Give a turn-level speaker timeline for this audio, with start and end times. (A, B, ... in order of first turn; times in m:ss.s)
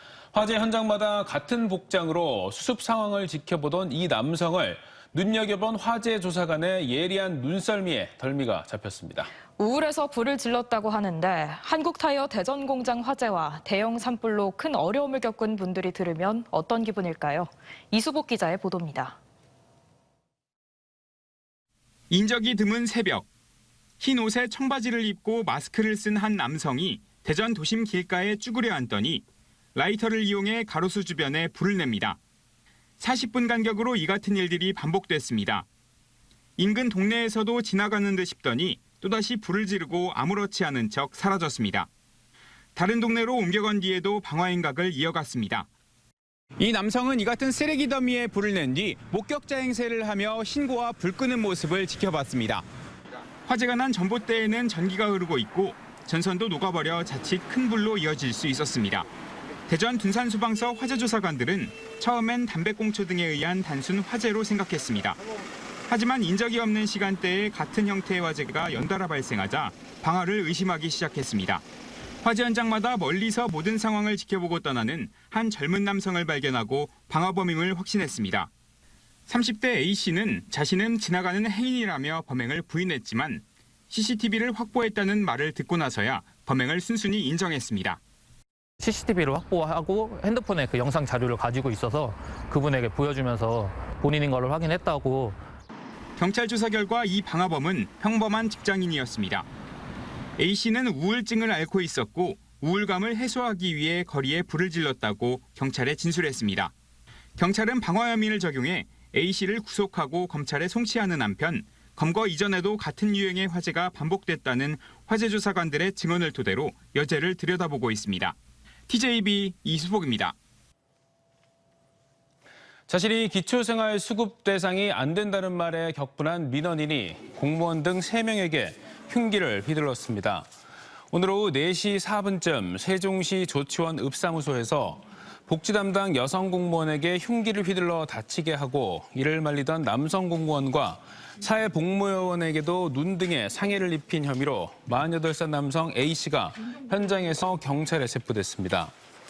0:00.3-0:09.3 A
0:09.6-0:19.2 B
0:22.1-0:23.3 C
0:24.0-0:32.2 C
0:33.0-0:35.7 C
0:36.6-0:41.9 C
0:42.8-0:45.7 C
0:46.6-0:52.6 C
0:53.5-0:59.1 C
0:59.7-1:05.2 C
1:05.9-1:11.7 C
1:12.2-1:18.5 C
1:19.3-1:28.0 C
1:28.8-1:35.4 D
1:36.2-1:39.5 C
1:40.4-1:46.7 C
1:47.4-1:58.4 C
1:58.9-2:00.4 C
2:02.9-2:10.5 A
2:11.1-2:28.9 A